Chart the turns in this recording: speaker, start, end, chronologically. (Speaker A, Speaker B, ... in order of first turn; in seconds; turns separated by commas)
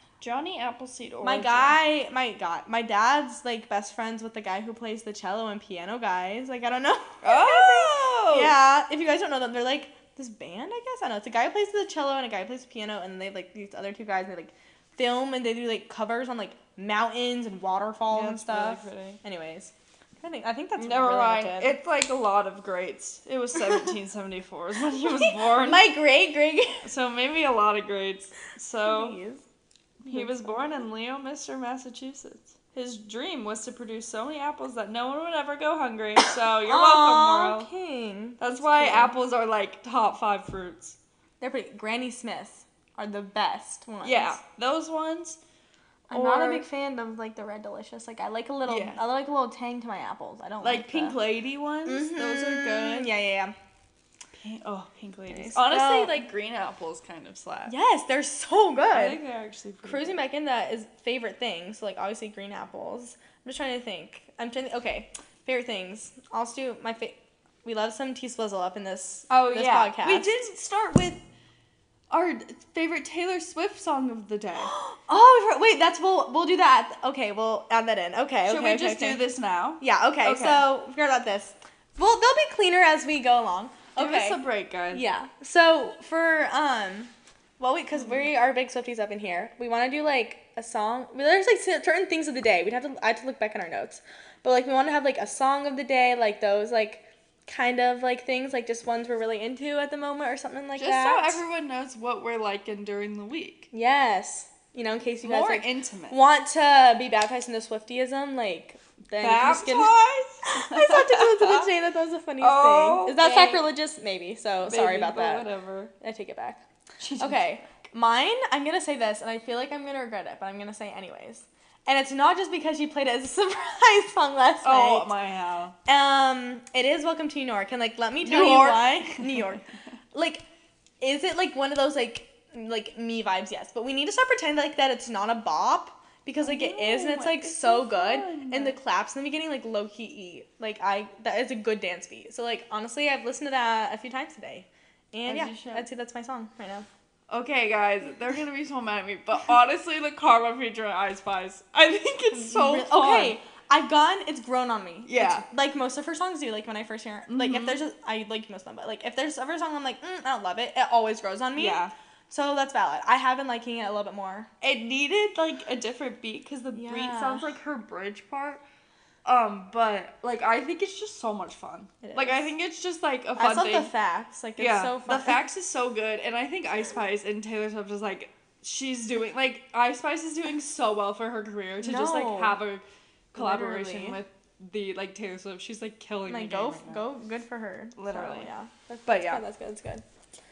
Speaker A: 0.2-1.8, Speaker B: 1.2-21.8, Speaker A: 7.2-8.5, Speaker A: 18.1-19.2, Speaker A: 20.8-25.9, Speaker B: 24.9-26.9, Speaker A: 26.8-29.2, Speaker B: 28.8-29.4, Speaker A: 30.0-37.7, Speaker B: 30.1-30.8, Speaker B: 36.6-39.1, Speaker A: 38.4-41.0, Speaker B: 41.4-44.4, Speaker A: 44.0-45.4, Speaker A: 46.1-46.6, Speaker B: 46.1-51.2, Speaker A: 48.6-49.0, Speaker A: 50.6-53.1, Speaker B: 51.9-53.5, Speaker A: 54.3-57.7, Speaker B: 55.3-56.2, Speaker B: 57.7-59.2, Speaker A: 58.9-60.2, Speaker B: 59.8-70.5, Speaker A: 69.3-71.2, Speaker A: 72.1-74.7, Speaker B: 74.5-79.2, Speaker A: 78.5-80.6, Speaker B: 79.8-101.4, Speaker A: 84.0-85.0, Speaker A: 88.0-88.3, Speaker A: 100.8-103.7, Speaker B: 103.7-115.5, Speaker A: 105.2-106.2, Speaker A: 109.2-111.7, Speaker A: 112.4-113.7, Speaker A: 114.6-115.9, Speaker B: 116.0-116.6, Speaker A: 117.0-117.5, Speaker B: 117.2-125.1, Speaker A: 124.6-125.8, Speaker B: 125.8-130.4, Speaker A: 128.2-129.5, Speaker B: 131.0-146.8, Speaker A: 136.4-138.8, Speaker A: 145.2-145.8, Speaker A: 147.3-153.4, Speaker B: 152.3-164.5, Speaker A: 155.0-155.4, Speaker A: 157.3-157.8, Speaker A: 161.6-161.9, Speaker A: 164.6-168.6, Speaker B: 166.7-167.5, Speaker A: 169.2-173.9, Speaker B: 172.0-172.5, Speaker B: 173.4-175.4, Speaker A: 174.6-187.1, Speaker B: 181.8-182.6, Speaker B: 183.3-184.2, Speaker B: 186.2-190.0, Speaker A: 187.9-188.5, Speaker A: 189.1-189.4